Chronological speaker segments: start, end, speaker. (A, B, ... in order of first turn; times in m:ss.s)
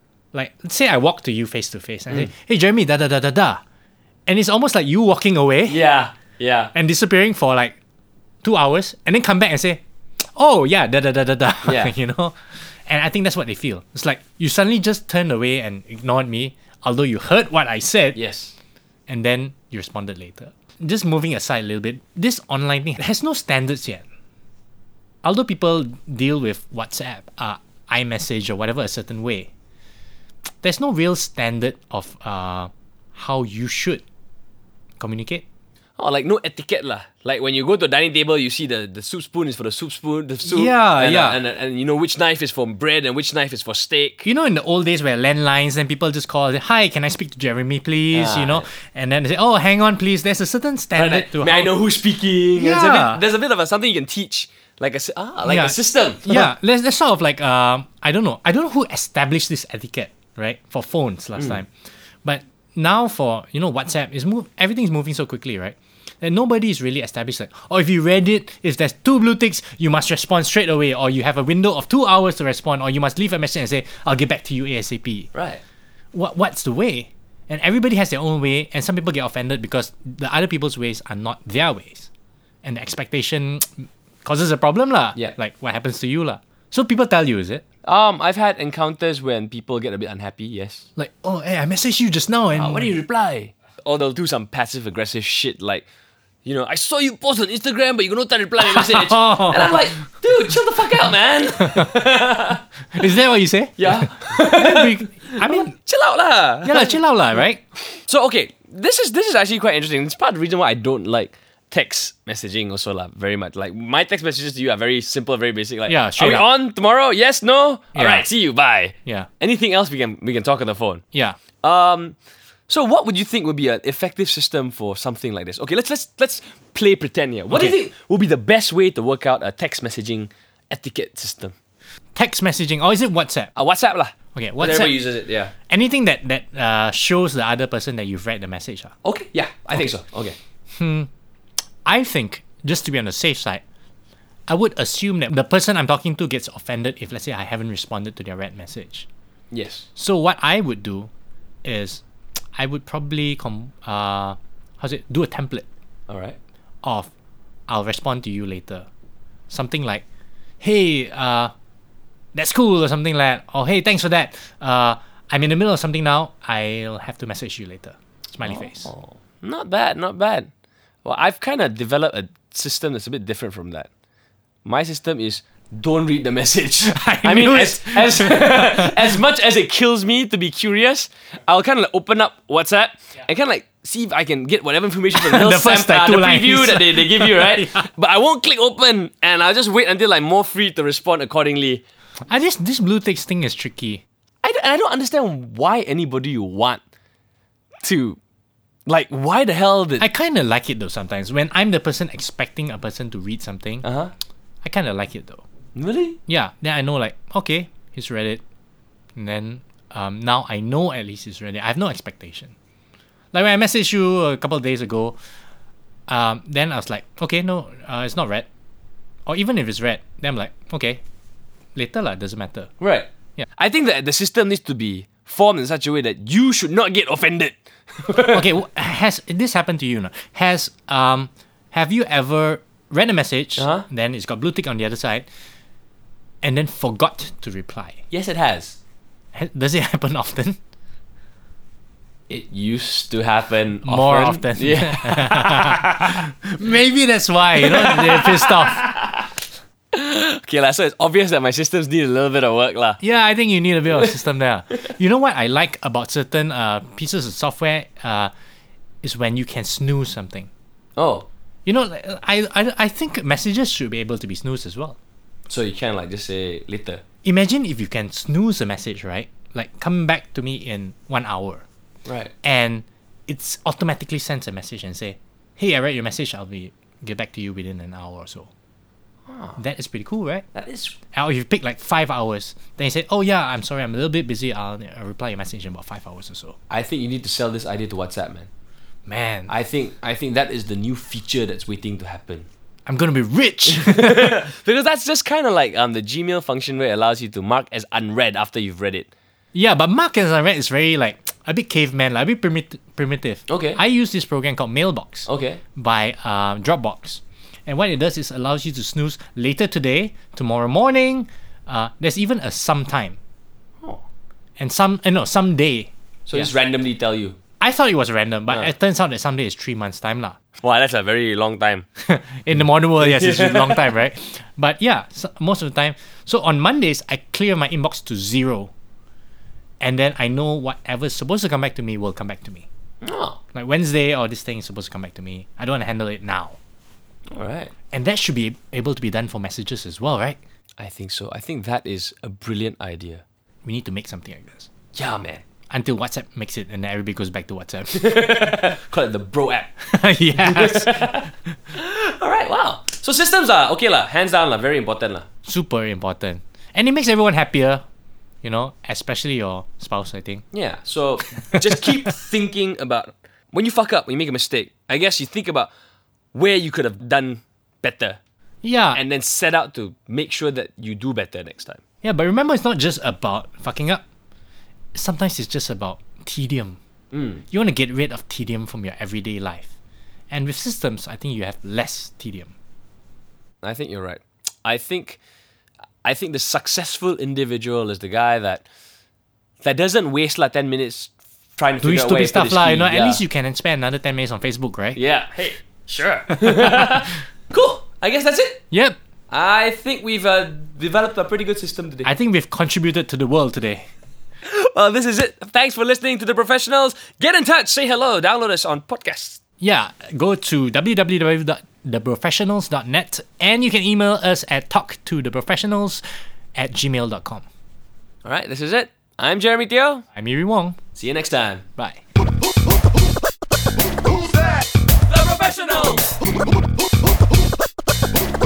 0:00.3-0:03.6 A
0:04.3-0:05.8 A
0:05.7-0:06.7 B
0:06.7-0:07.8 A
0:08.4-0:09.8 A
0:10.3-0:18.2 A
0:11.6-0:11.9 B
0:18.1-0:18.5 B
0:19.1-0:24.0 A
0:25.2-0:29.5 A
0:30.6-0:34.0 A
0:35.0-0:35.4 A
0:36.0-0:44.3 B
0:40.4-0:41.4 A
0:44.2-0:51.7 A
0:48.1-0:48.7 B
0:50.9-0:56.5 B
0:52.5-0:53.2 A
0:55.4-1:01.7 A
1:01.4-1:01.6 B
1:02.2-1:15.3 A
1:15.3-1:15.6 B
1:16.1-1:22.1 A
1:22.6-1:27.6 A
1:27.8-1:30.8 B
1:31.0-1:32.9 A
1:32.5-1:35.8 B
1:36.4-1:42.6 B
1:38.6-1:39.9 A
1:41.6-1:41.9 A
1:43.0-1:45.7 A
1:43.8-1:47.0 B
1:46.6-1:47.6 A
1:48.0-2:01.0 B
1:55.9-1:56.5 A
1:57.9-1:58.2 A
2:01.6-2:02.2 B
2:02.7-2:11.5 B
2:07.5-2:07.8 A
2:12.1-2:13.5 A
2:13.5-2:15.5 B
2:14.3-2:15.0 A
2:15.7-2:18.9 A
2:19.0-2:20.4 B
2:20.8-2:21.1 A
2:21.8-2:23.6 A
2:24.5-2:29.1 A
2:29.5-2:29.9 B
2:30.0-2:31.1 A
2:31.6-2:32.0 A
2:32.6-2:35.6 A
2:36.1-2:36.4 B
2:36.8-2:37.1 A
2:37.7-2:38.9 A
2:39.5-2:40.0 A
2:40.6-2:41.5 A
2:42.3-2:48.9 A
2:48.4-2:50.5 B
2:51.0-2:53.9 B
2:54.6-3:11.8 B
2:56.8-2:59.2 A
3:05.1-3:07.9 A
3:12.3-3:14.0 A
3:14.4-3:16.8 B
3:17.8-3:18.2 B
3:18.9-3:20.0 B
3:20.0-3:23.8 A
3:23.8-3:24.1 B
3:24.6-3:25.4 A
3:25.7-3:26.2 B
3:26.3-3:28.4 A
3:29.2-3:32.5 A
3:33.3-3:35.2 A
3:36.1-3:38.4 A
3:39.3-3:41.0 A
3:41.7-3:42.7 A
3:42.8-3:48.4 B
3:48.3-3:55.3 A
3:53.6-3:53.8 B
3:56.4-3:58.0 A
3:58.1-3:58.8 B
3:59.3-4:00.6 A
4:02.3-4:06.0 B
4:03.8-4:08.8 A
4:07.6-4:09.3 B
4:09.9-4:13.0 B
4:13.0-4:18.3 A
4:19.0-4:20.5 A
4:21.0-4:21.3 B
4:21.6-4:25.0 A
4:25.5-4:27.0 B
4:27.2-4:31.6 A
4:32.0-4:32.3 B
4:32.4-4:38.5 A
4:39.3-4:39.6 B
4:39.6-4:40.4 A
4:40.5-4:41.0 B
4:41.1-4:46.6 A
4:46.7-4:48.5 B
4:49.1-4:49.5 A
4:49.5-4:52.5 B
4:52.8-4:54.4 A
4:53.8-4:59.1 B
4:59.5-5:13.2 A
5:03.5-5:03.8 B
5:05.2-5:05.6 B
5:14.6-5:16.5 A
5:16.3-5:17.4 B
5:17.6-5:20.4 A
5:20.6-5:21.8 B
5:22.0-5:28.7 A
5:23.0-5:23.9 B
5:29.8-5:32.7 A
5:33.0-5:33.4 B
5:33.5-5:36.6 A
5:37.3-5:37.7 B
5:37.9-5:40.4 A
5:40.8-5:43.2 B
5:43.6-5:44.7 A
5:44.9-5:45.4 B
5:45.7-5:48.1 A
5:47.9-5:49.7 B
5:49.8-5:51.5 A
5:50.4-5:51.2 B
5:51.7-5:55.2 B
5:55.4-5:57.8 A
5:58.4-6:00.4 A
6:00.5-6:05.7 B
6:01.4-6:01.8 A
6:06.3-6:08.2 B
6:08.6-6:09.0 A
6:08.9-6:11.8 B
6:12.0-6:14.0 A
6:14.9-6:16.8 A
6:17.1-6:17.4 B
6:17.5-6:19.7 A
6:20.3-6:22.5 A
6:23.6-6:25.2 B
6:26.0-6:28.6 B
6:29.6-6:33.2 B
6:31.8-6:35.0 A
6:34.9-6:38.6 B
6:36.4-6:37.0 A
6:38.7-6:39.0 A
6:39.3-6:42.1 B
6:42.0-6:43.8 A
6:44.4-6:49.4 B
6:49.6-6:56.0 A
6:56.5-6:57.4 A
6:58.2-7:00.0 B
7:00.1-7:00.8 A
7:00.9-7:01.6 B
7:05.1-7:06.1 B